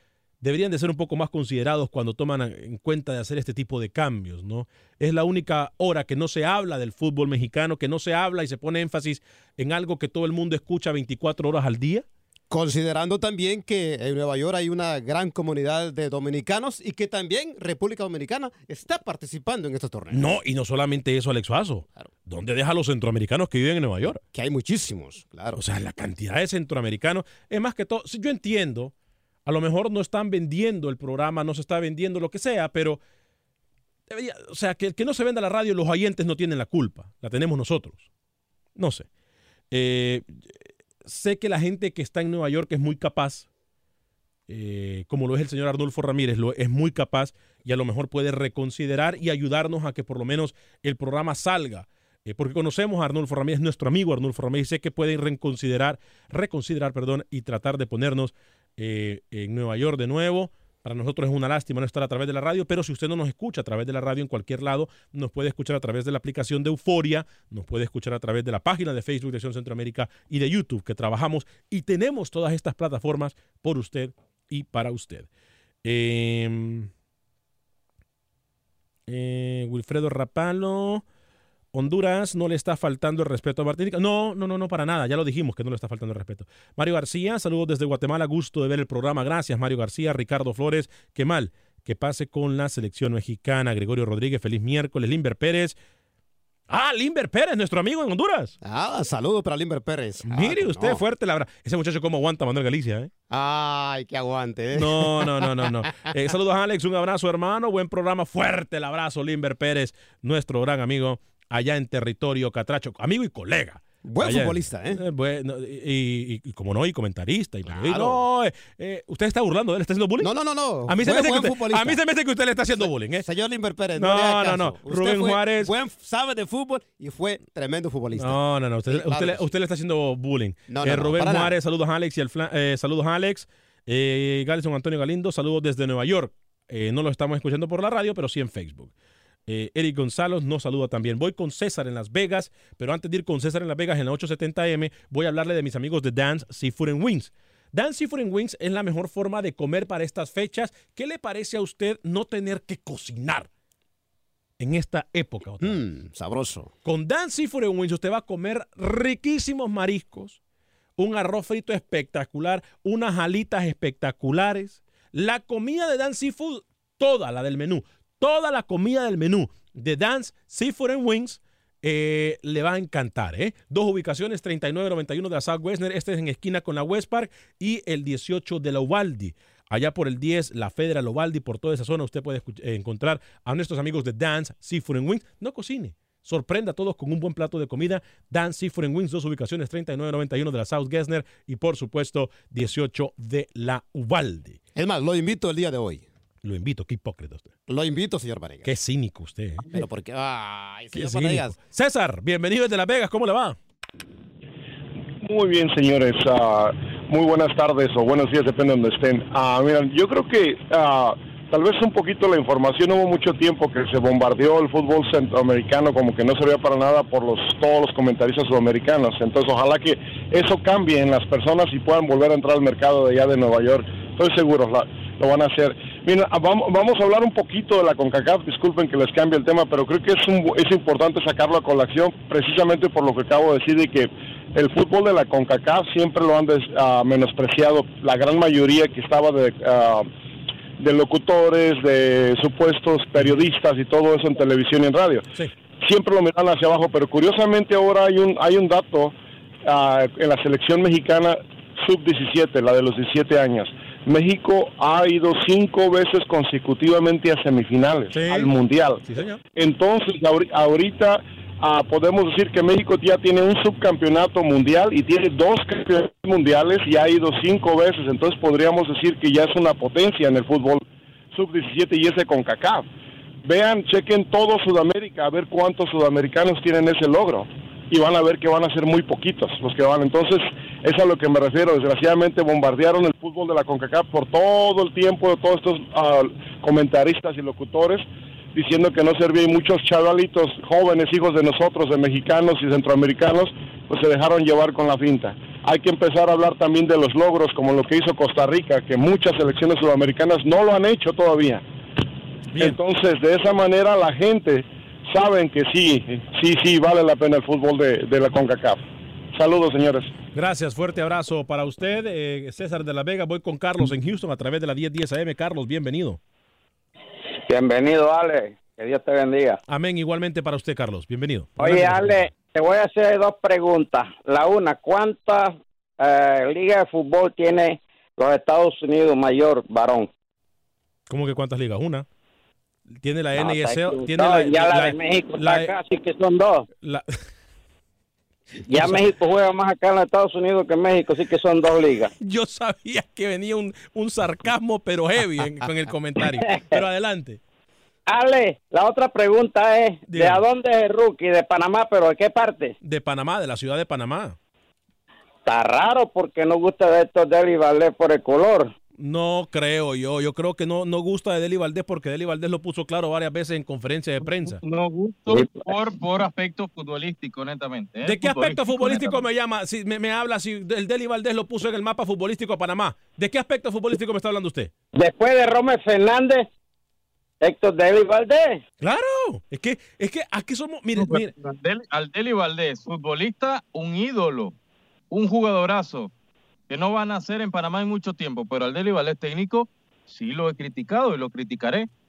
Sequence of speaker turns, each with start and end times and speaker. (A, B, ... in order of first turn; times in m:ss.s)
0:00.4-0:12.0 A
0:12.5-0:20.4 B
0:20.1-0:24.2 A
0:24.0-0:25.6 B
0:25.5-0:28.9 A
0:29.4-0:33.0 A
0:34.1-0:38.1 A
0:38.8-0:39.1 A
0:39.7-0:40.5 A
0:41.0-0:43.5 A
0:44.5-1:15.3 A
1:15.8-1:16.9 A
1:19.1-1:21.0 A
1:21.7-1:35.8 A
1:36.7-1:38.5 A
1:38.6-1:41.0 B
1:40.2-1:43.1 A
1:43.3-1:46.1 B
1:44.7-2:00.3 A
1:54.0-1:55.0 B
1:57.6-1:58.2 B
2:00.2-2:02.0 B
2:00.9-2:03.2 A
2:02.8-2:09.5 B
2:04.0-2:05.7 A
2:08.2-2:18.9 A
2:10.7-2:11.6 B
2:19.5-2:33.5 A
2:34.6-2:35.8 A
2:35.6-2:36.7 B
2:36.8-2:40.4 A
2:41.0-3:14.6 A
3:14.7-3:16.0 B
3:16.4-3:17.5 A
3:17.7-3:18.7 B
3:18.6-3:19.8 A
3:19.6-3:21.6 B
3:20.9-3:23.6 A
3:25.2-4:00.1 C
4:00.8-4:05.2 C
4:05.8-4:19.0 C
4:18.1-4:19.4 A
4:19.6-4:32.8 C
4:33.4-5:01.6 C
5:02.5-5:02.8 A
5:02.6-5:10.1 C
5:10.3-5:16.2 A
5:17.5-5:19.6 D
5:19.7-5:22.2 A
5:21.6-5:30.1 D
5:31.1-5:32.0 A
5:33.0-5:35.7 A
5:33.4-5:36.6 D
5:36.8-5:37.1 A
5:38.7-5:39.1 A
5:38.7-5:42.1 D
5:42.2-5:47.4 A
5:48.1-5:52.7 D
5:50.1-5:50.4 A
5:52.8-5:54.4 A
5:55.4-5:58.7 D
5:59.0-6:04.6 A
6:04.4-6:09.2 E
6:08.0-6:14.7 A
6:14.9-6:16.4 D
6:17.4-6:18.6 D
6:18.8-6:21.3 A
6:21.0-6:24.5 E
6:25.1-6:26.1 E
6:26.7-6:31.9 E